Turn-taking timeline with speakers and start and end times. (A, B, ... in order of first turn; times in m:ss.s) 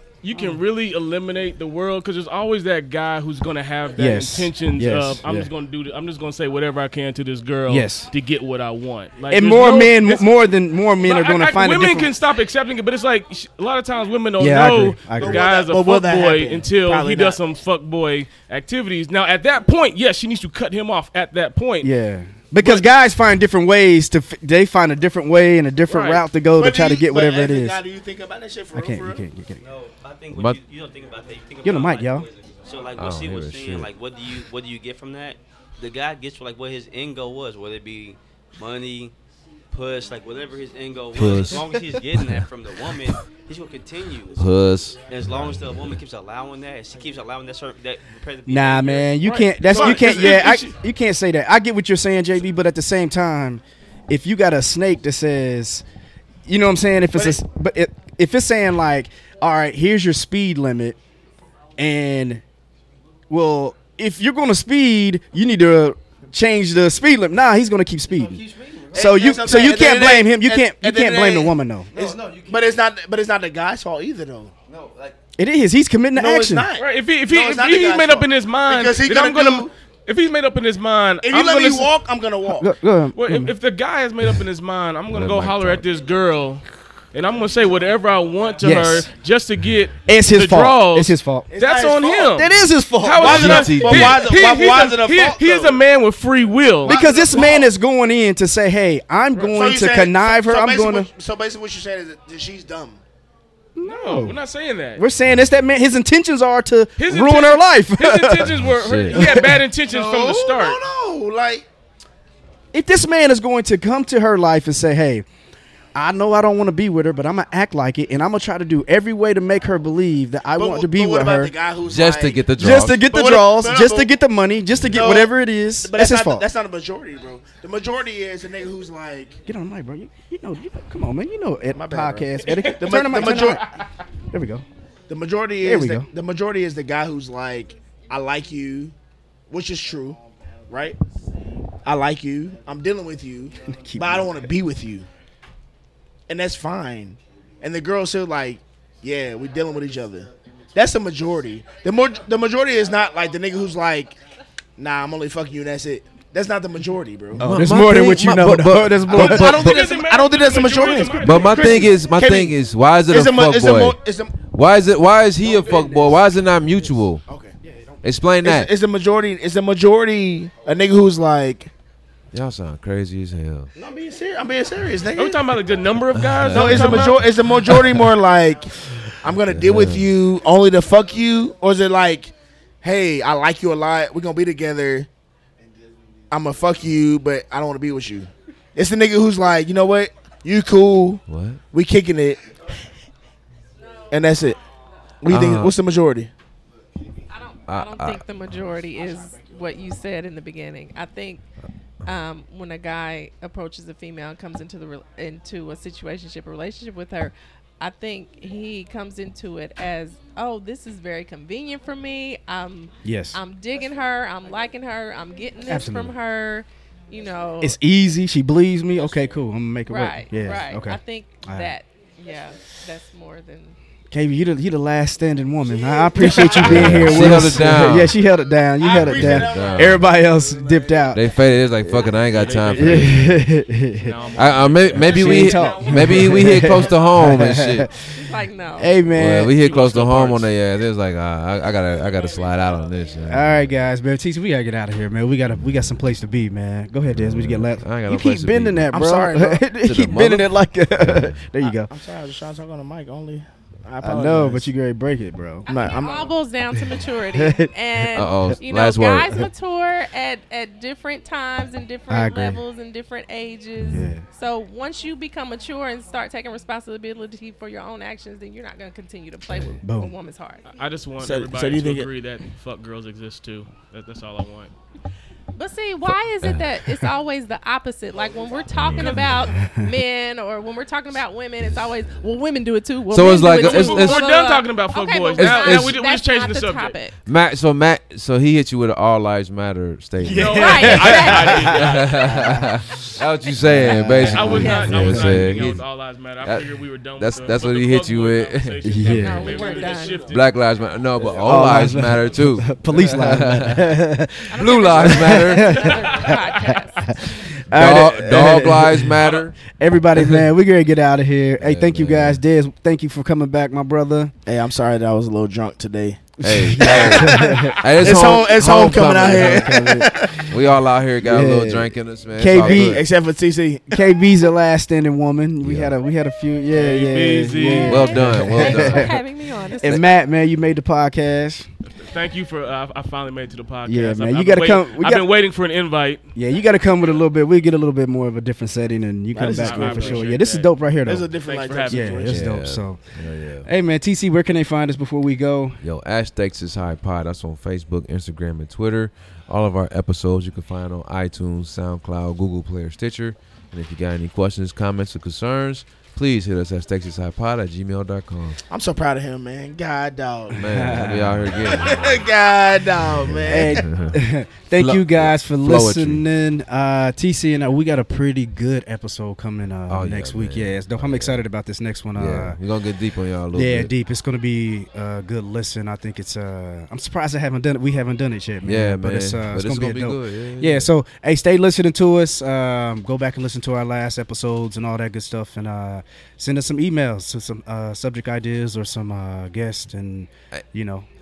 0:00.2-0:10.3 A
0:00.4-0:00.6 B
0:04.0-0:05.5 B
0:07.7-0:08.1 B
0:09.3-0:12.1 B
0:11.0-0:21.9 A
0:14.4-0:15.5 B
0:15.1-0:17.4 C
0:21.8-0:27.8 B
0:22.6-0:22.9 A
0:25.9-0:26.3 A
0:26.5-0:29.2 C
0:28.7-0:29.6 B
0:29.6-0:39.1 D
0:30.3-0:30.6 E
0:31.6-0:32.3 B
0:33.0-0:33.9 E
0:39.7-0:44.5 D
0:41.1-0:41.7 E
0:44.4-0:46.0 E
0:45.0-0:49.3 D
0:48.5-0:55.8 B
0:49.2-0:50.7 A
0:49.6-0:50.7 C
0:56.5-1:01.0 B
1:01.8-1:02.4 B
1:03.3-1:11.9 B
1:08.1-1:09.2 D
1:08.9-1:14.5 C
1:11.9-1:12.8 D
1:14.7-1:15.2 D
1:15.4-1:16.7 B
1:16.2-1:19.7 C
1:16.8-1:21.9 A
1:21.2-1:22.7 C
1:22.6-1:23.5 B
1:23.1-1:37.5 A
1:25.1-1:25.9 E
1:28.6-1:29.1 B
1:30.1-1:31.5 B
1:31.5-1:32.4 C
1:32.3-1:33.8 B
1:33.1-1:35.8 C
1:33.2-1:34.3 E
1:36.8-1:37.7 C
1:36.8-1:41.1 B
1:39.3-1:39.6 A
1:39.4-1:43.0 C
1:43.8-1:44.4 B
1:43.8-1:45.1 A
1:45.0-1:49.7 B
1:47.0-1:50.8 A
1:48.5-1:49.2 E
1:49.2-1:51.7 C
1:52.7-1:55.3 B
1:56.0-2:01.5 B
2:00.6-2:04.1 C
2:01.9-2:03.1 E
2:02.6-2:06.5 B
2:04.9-2:09.4 C
2:09.5-2:13.6 B
2:11.7-2:13.7 C
2:12.4-2:13.8 A
2:14.3-2:14.6 B
2:15.1-2:18.9 C
2:15.6-2:16.1 B
2:19.5-2:21.2 C
2:21.7-2:25.1 C
2:23.8-2:24.5 B
2:26.3-2:34.2 C
2:34.8-2:37.8 C
2:37.4-2:40.0 E
2:37.4-2:39.6 B
2:39.1-2:44.5 C
2:39.2-2:42.0 A
2:41.2-2:47.2 E
2:45.4-2:51.7 C
2:48.0-2:48.7 E
2:52.3-2:53.7 E
2:53.8-2:55.7 C
2:55.1-2:57.3 A
2:56.1-2:58.1 E
2:56.5-3:05.1 C
2:59.0-3:00.1 E
3:06.3-3:12.4 C
3:11.3-3:11.6 E
3:14.1-3:14.6 C
3:15.2-3:16.3 C
3:15.3-3:15.7 E
3:17.3-3:21.4 F
3:17.7-3:18.2 E
3:19.0-3:19.8 C
3:22.0-3:37.8 F
3:33.0-3:33.4 B
3:35.7-3:36.2 B
3:37.6-3:41.8 B
3:39.9-3:43.8 F
3:44.1-3:51.3 B
3:45.6-3:47.8 C
3:46.2-3:47.2 A
3:46.6-3:48.2 E
3:48.8-3:51.2 C
3:49.0-3:50.1 E
3:51.1-3:53.4 E
3:51.8-3:54.2 B
3:52.3-3:56.2 A
3:54.4-3:57.9 E
3:54.9-3:58.0 B
3:55.0-3:57.2 C
3:58.1-3:59.0 F
3:58.8-3:59.6 B
3:59.1-4:03.7 E
3:59.5-4:00.5 A
4:03.3-4:11.9 B
4:07.2-4:09.0 E
4:08.9-4:09.7 C
4:09.8-4:11.5 E
4:11.6-4:14.7 C
4:14.0-4:15.7 B
4:15.6-4:30.6 F
4:15.7-4:16.3 C
4:17.3-4:18.6 B
4:18.2-4:19.3 E
4:22.1-4:22.6 B
4:23.8-4:24.1 E
4:23.9-4:24.2 B
4:29.5-4:29.8 E
4:29.8-4:30.1 B
4:30.7-4:34.7 A
4:31.2-4:32.1 C
4:35.6-4:47.2 F
4:38.7-4:39.6 E
4:39.5-4:39.8 B
4:43.1-4:44.3 E
4:43.4-4:47.0 A
4:45.4-4:45.9 B
4:47.3-4:51.2 E
4:50.2-4:52.7 B
4:50.3-4:52.2 A
4:50.5-4:52.3 F
4:51.9-4:55.9 E
4:53.4-4:55.3 F
4:53.6-4:55.8 B
4:54.3-5:00.4 A
4:56.4-4:58.9 E
4:58.8-4:59.6 B
4:59.2-5:00.3 F
4:59.4-5:00.5 C
5:00.2-5:03.9 E
5:01.2-5:01.6 C
5:01.4-5:06.4 B
5:04.5-5:07.5 F
5:04.6-5:05.8 E
5:05.7-5:07.1 A
5:07.1-5:14.3 B
5:07.7-5:09.6 E
5:09.2-5:09.5 A
5:10.2-5:10.4 E
5:11.6-5:12.4 E
5:14.5-5:20.5 C
5:16.4-5:19.8 E
5:16.4-5:17.8 B
5:19.3-5:20.3 B
5:20.5-5:23.1 E
5:21.2-5:23.1 B
5:22.5-5:24.0 C
5:23.9-5:29.2 B
5:25.6-5:25.9 E
5:26.7-5:28.0 A
5:27.8-5:29.2 E
5:27.9-5:30.1 F
5:29.8-5:31.7 B
5:32.0-5:36.2 A
5:33.9-5:35.3 B
5:36.4-5:41.3 B
5:39.3-5:40.3 C
5:39.5-5:40.9 A
5:41.0-5:42.5 C
5:41.4-5:42.2 A
5:41.9-5:43.1 B
5:42.3-5:43.7 E
5:43.6-5:45.8 B
5:45.8-5:58.6 E
5:58.7-6:00.7 C
6:00.6-6:02.3 E
6:00.6-6:01.5 B
6:01.6-6:03.9 C
6:03.1-6:04.2 E
6:03.5-6:12.6 B
6:04.8-6:06.2 E
6:09.9-6:11.4 E
6:12.2-6:13.9 E
6:13.5-6:31.1 B
6:18.6-6:20.9 E